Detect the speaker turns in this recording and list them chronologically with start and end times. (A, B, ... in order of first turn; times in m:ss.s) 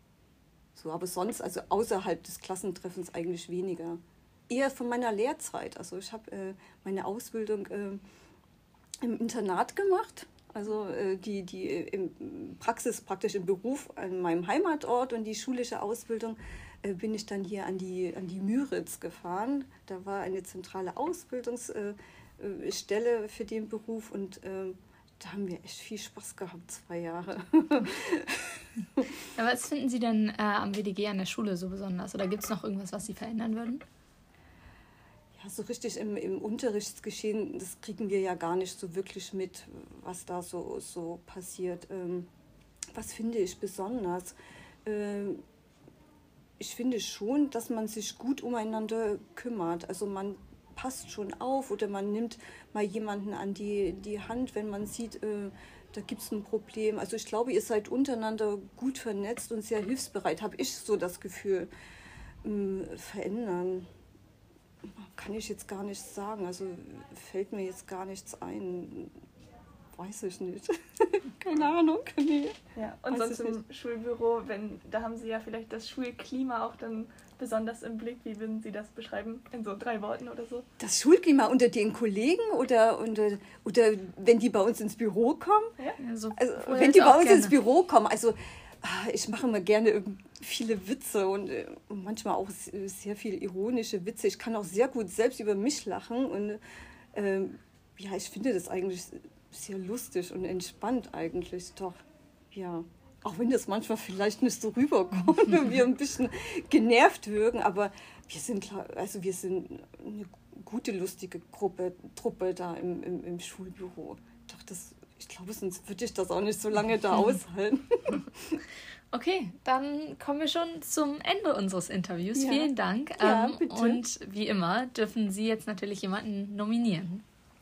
0:00.8-0:08.0 A
0:09.0-0:29.1 A
0:29.4-0:33.8 B
0:35.4-0:42.3 A
0:42.9-0:45.4 A
0:46.6-1:01.7 A
1:02.4-1:03.9 A
1:05.0-1:09.2 A
1:10.0-1:12.6 A
1:12.8-1:20.7 C
1:13.1-1:13.6 A
1:20.8-1:25.7 A
1:26.0-1:27.6 B
1:26.4-1:36.6 A
1:37.1-1:58.6 A
1:59.1-2:07.2 B
2:02.4-2:04.0 A